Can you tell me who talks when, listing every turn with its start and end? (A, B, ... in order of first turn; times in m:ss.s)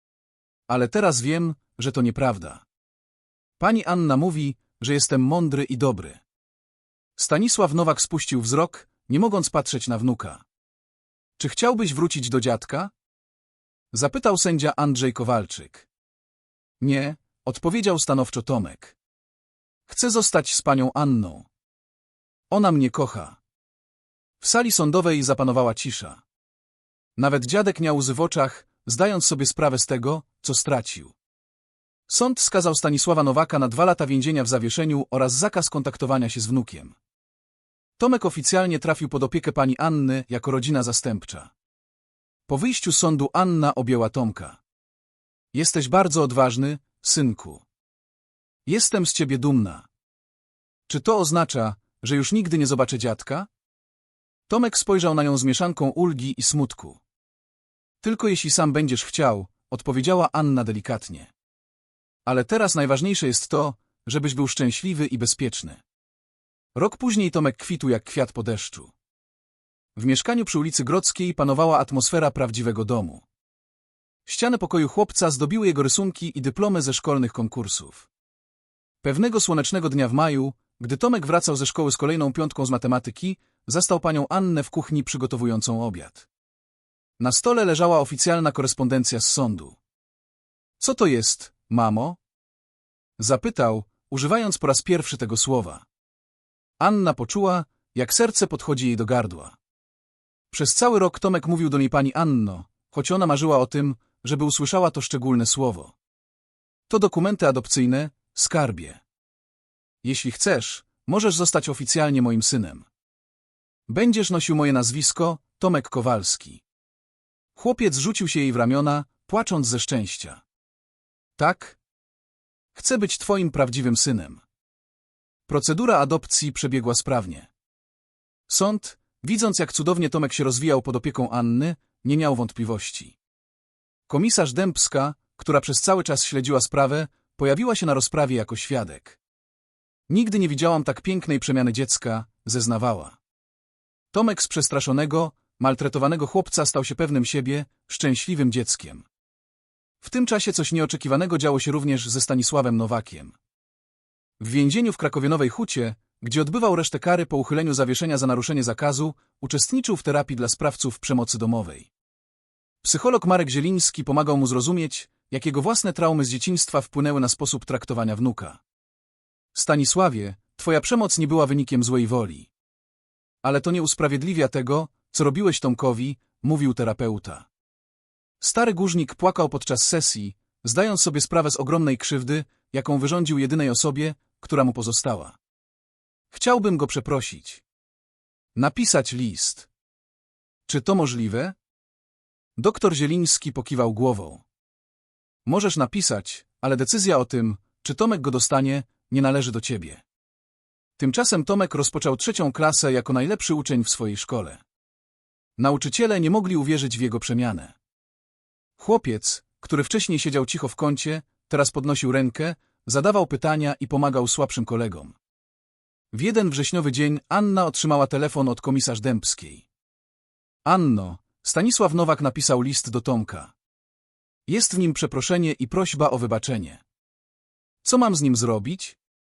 0:00.7-0:02.6 A
0:03.6-0:06.2 A
0:07.2-0:10.4 A
0:11.4-0:12.9 A
0:13.9-0:15.9 A
0:16.8-0:19.0 A
0:19.9-0:21.5 A
0:22.5-0:23.4 A
0:24.4-0:26.2 A
0:27.2-0:31.2 A
0:32.1-0:37.0 A
0:38.0-0:41.5 A
0:42.5-0:44.6 A
0:45.5-0:47.6 A
0:48.7-0:49.9 A
0:50.9-0:53.5 A
0:54.5-0:57.0 A
0:58.0-1:01.3 A
1:02.3-1:05.8 A
1:06.8-1:08.9 A
1:10.0-1:13.2 A
1:14.3-1:18.1 A
1:19.0-1:26.3 A
1:27.2-1:29.8 A
1:30.8-1:32.2 A
1:33.2-1:35.8 A
1:36.8-1:39.6 A
1:40.5-1:46.0 A
1:46.9-1:49.0 A
1:50.0-1:52.9 A
1:53.9-1:56.6 A
1:57.6-2:00.4 A
2:01.4-2:01.8 A
2:02.7-2:04.4 A
2:05.5-2:07.5 A
2:08.5-2:13.2 A
2:14.1-2:19.2 A
2:20.1-2:23.2 A
2:24.1-2:29.1 A
2:30.0-2:33.4 A
2:34.4-2:41.9 A
2:42.8-2:48.6 A
2:49.5-2:52.5 A
2:53.4-2:57.5 A
2:58.4-3:05.4 A
3:06.3-3:07.6 A
3:08.6-3:09.7 A
3:10.7-3:11.6 A
3:12.6-3:14.4 A
3:15.5-3:20.0 A
3:21.0-3:24.6 A
3:25.6-3:27.8 A
3:28.8-3:35.2 A
3:36.1-3:39.7 A
3:40.6-3:43.5 A
3:44.5-3:46.8 A
3:47.8-3:49.0 A